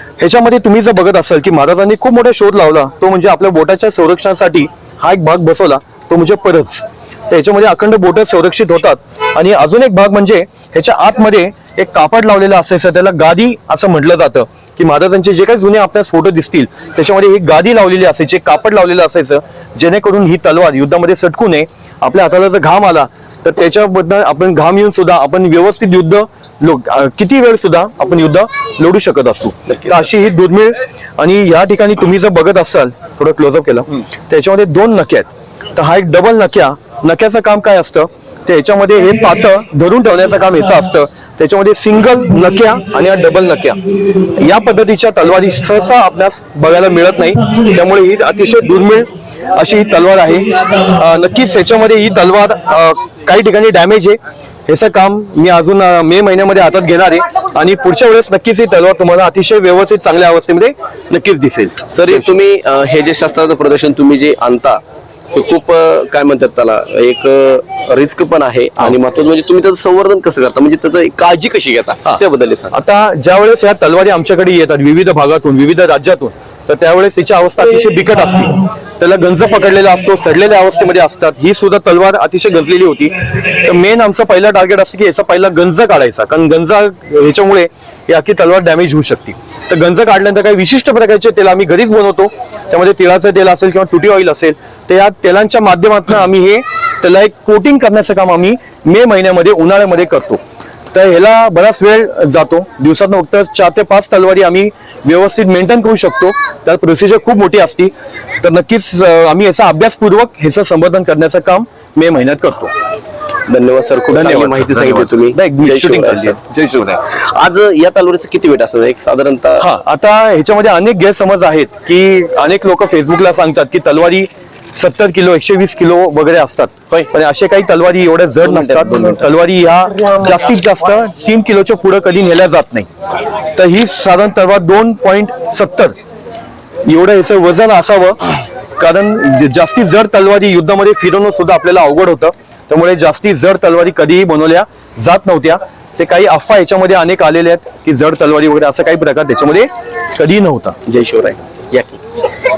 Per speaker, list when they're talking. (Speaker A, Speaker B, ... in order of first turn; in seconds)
Speaker A: 0.2-43.8, 44.4-62.3, 72.7-100.4, 100.9-112.7, 114.1-117.0, 119.6-132.9, 133.6-135.9, 136.9-138.2, 138.8-150.8
Speaker B: 61.9-64.8, 65.3-72.7, 113.5-119.6, 128.4-129.2, 150.9-152.0